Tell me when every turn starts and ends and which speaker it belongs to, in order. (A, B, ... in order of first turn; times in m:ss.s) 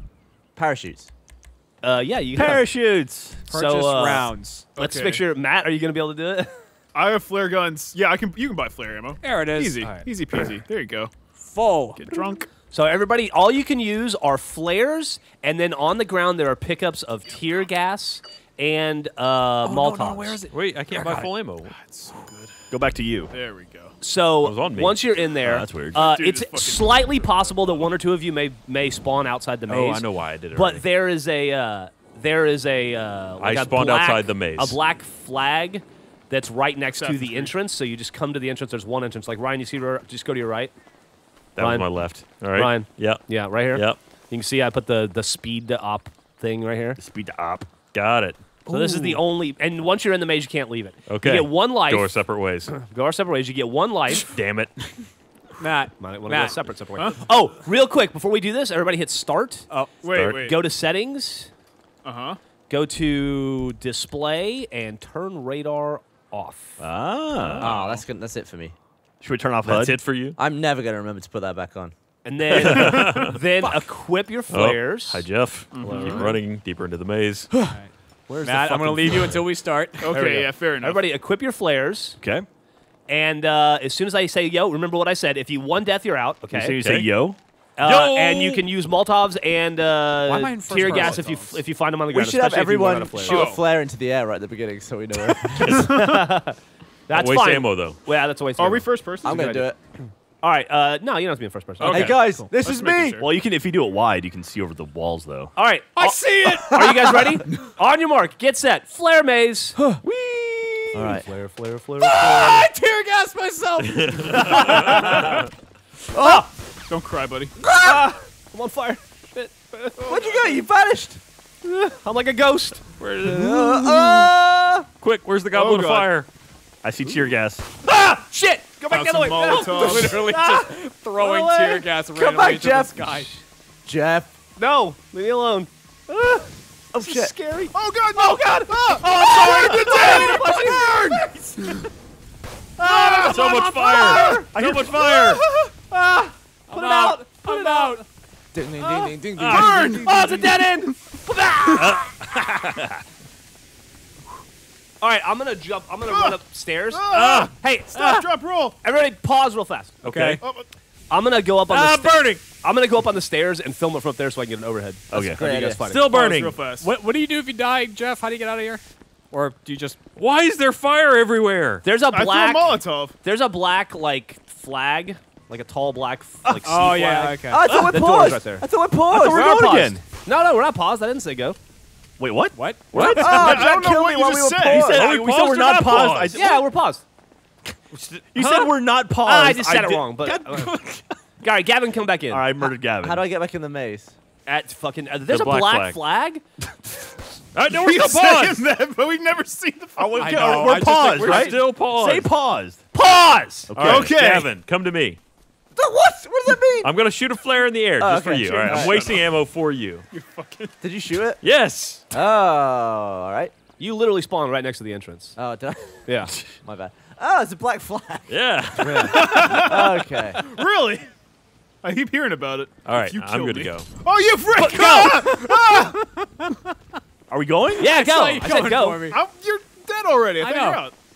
0:00.6-0:01.1 A
0:01.8-0:02.7 B
0:02.3-0:03.4 C
0:03.5-0:04.7 D
0:03.5-0:06.5 B
0:04.8-0:05.2 E
0:06.9-0:11.1 E
0:09.2-0:09.8 D
0:09.8-0:10.1 B
0:11.4-0:12.2 D
0:12.0-0:12.5 E
0:12.7-0:20.4 B
0:19.6-0:21.3 D
0:20.5-0:21.7 F
0:21.7-0:22.5 E
0:22.7-0:23.3 C
0:23.3-0:23.9 E
0:24.0-0:40.7 B
0:24.4-0:25.0 F
0:25.4-0:26.0 C
0:25.9-0:27.8 E
0:29.7-0:30.8 F
0:33.4-0:34.8 F
0:37.0-0:37.5 E
0:41.6-0:44.0 F
0:41.6-0:47.0 B
0:47.0-0:47.7 C
0:47.8-0:48.4 F
0:48.7-0:49.2 D
0:48.7-0:54.3 B
0:51.0-0:52.7 F
0:54.2-0:54.9 F
0:55.6-0:56.6 D
0:56.0-1:01.5 B
0:59.7-1:00.0 D
1:00.0-1:00.5 E
1:00.1-1:00.5 F
1:02.0-1:02.4 E
1:02.7-1:06.8 B
1:06.8-1:07.7 C
1:07.4-1:07.8 F
1:07.6-1:08.7 A
1:09.2-1:10.0 C
1:09.6-1:10.4 F
1:10.4-1:11.9 A
1:12.2-1:15.3 B
1:12.5-1:13.4 F
1:14.5-1:17.5 F
1:15.7-1:16.3 E
1:15.8-1:16.4 B
1:17.6-1:17.9 D
1:18.3-1:19.4 B
1:18.4-1:20.2 D
1:20.0-1:21.0 E
1:20.0-1:22.2 B
1:22.2-1:22.5 C
1:23.1-1:26.8 B
1:26.4-1:27.4 C
1:26.8-1:27.1 F
1:27.8-1:33.5 B
1:27.8-1:28.6 F
1:30.2-1:31.6 D
1:32.1-1:35.9 A
1:33.3-1:33.6 E
1:35.6-1:36.0 F
1:35.7-1:36.6 B
1:37.1-1:39.7 B
1:37.1-1:38.0 F
1:38.6-1:39.4 E
1:39.2-1:39.8 A
1:40.4-1:42.5 B
1:41.8-1:43.2 E
1:41.9-1:43.2 A
1:43.2-1:45.5 C
1:45.5-1:49.8 B
1:45.9-1:47.0 D
1:50.9-1:52.7 B
1:50.9-1:51.2 A
1:52.0-1:54.9 D
1:53.8-1:55.4 F
1:54.3-1:55.3 B
1:56.1-1:56.5 B
1:56.1-1:56.4 A
1:56.9-1:57.5 E
1:57.6-1:58.1 A
1:57.8-2:00.0 B
2:00.0-2:00.6 E
2:00.0-2:01.2 A
2:01.6-2:02.9 B
2:03.0-2:04.3 F
2:03.2-2:04.9 A
2:05.0-2:06.3 F
2:05.5-2:06.1 E
2:06.8-2:07.6 C
2:07.8-2:11.9 B
2:08.9-2:10.2 E
2:09.6-2:13.3 D
2:12.1-2:13.2 A
2:13.8-2:14.3 A
2:14.6-2:16.4 B
2:16.9-2:17.3 A
2:17.0-2:21.8 B
2:17.7-2:21.7 E
2:22.8-2:24.4 B
2:22.9-2:23.4 E
2:23.1-2:25.4 F
2:24.4-2:25.4 C
2:25.3-2:25.7 E
2:25.9-2:28.0 B
2:26.7-2:28.0 D
2:28.5-2:30.3 A
2:28.9-2:32.0 B
2:29.4-2:29.8 F
2:29.5-2:30.9 E
2:31.7-2:32.8 F
2:35.0-2:38.2 B
2:36.0-2:36.4 E
2:36.9-2:38.8 E
2:37.1-2:38.2 F
2:38.8-2:40.0 B
2:40.0-2:40.4 F
2:40.0-2:40.4 D
2:41.1-2:46.1 B
2:41.7-2:42.4 F
2:45.1-2:45.4 C
2:45.1-2:45.8 A
2:45.8-2:46.6 F
2:46.1-2:46.9 E
2:46.7-2:50.0 D
2:50.2-2:51.8 F
2:51.8-2:58.6 B
2:52.0-2:53.1 E
2:56.4-2:56.8 C
2:56.6-2:57.7 D
2:57.5-2:59.6 A
2:59.1-3:00.0 C
2:59.2-3:01.6 B
3:02.2-3:03.3 C
3:02.5-3:03.5 D
3:02.9-3:05.1 A
3:03.3-3:04.9 E
3:04.6-3:06.6 C
3:04.8-3:06.6 F
3:06.3-3:07.0 B
3:07.9-3:08.8 F
3:08.3-3:10.2 C
3:09.2-3:10.7 B
3:10.2-3:11.0 D
3:11.4-3:12.4 B
3:12.3-3:13.3 C
3:13.0-3:14.1 A
3:14.4-3:16.4 B
3:15.3-3:16.0 F
3:17.5-3:18.6 F
3:17.7-3:20.5 E
3:20.0-3:21.5 D
3:20.0-3:22.8 C
3:21.0-3:22.3 F
3:22.9-3:23.7 B
3:23.7-3:24.2 C
3:23.7-3:25.2 F
3:23.9-3:24.5 E
3:25.8-3:26.9 A
3:26.8-3:30.0 F
3:28.0-3:29.2 A
3:28.7-3:29.2 E
3:30.1-3:30.7 E
3:30.8-3:31.4 A
3:31.4-3:32.0 F
3:32.1-3:33.5 A
3:33.8-3:35.4 B
3:35.4-3:36.0 A
3:36.0-3:36.3 B
3:36.6-3:40.4 A
3:38.3-3:39.5 F
3:38.8-3:39.4 B
3:39.0-3:41.1 E
3:41.8-3:46.5 E
3:42.8-3:43.9 F
3:44.6-3:45.4 B
3:47.3-3:47.8 C
3:47.8-3:49.1 B
3:47.8-3:49.2 D
3:49.1-3:50.9 E
3:50.4-3:50.8 D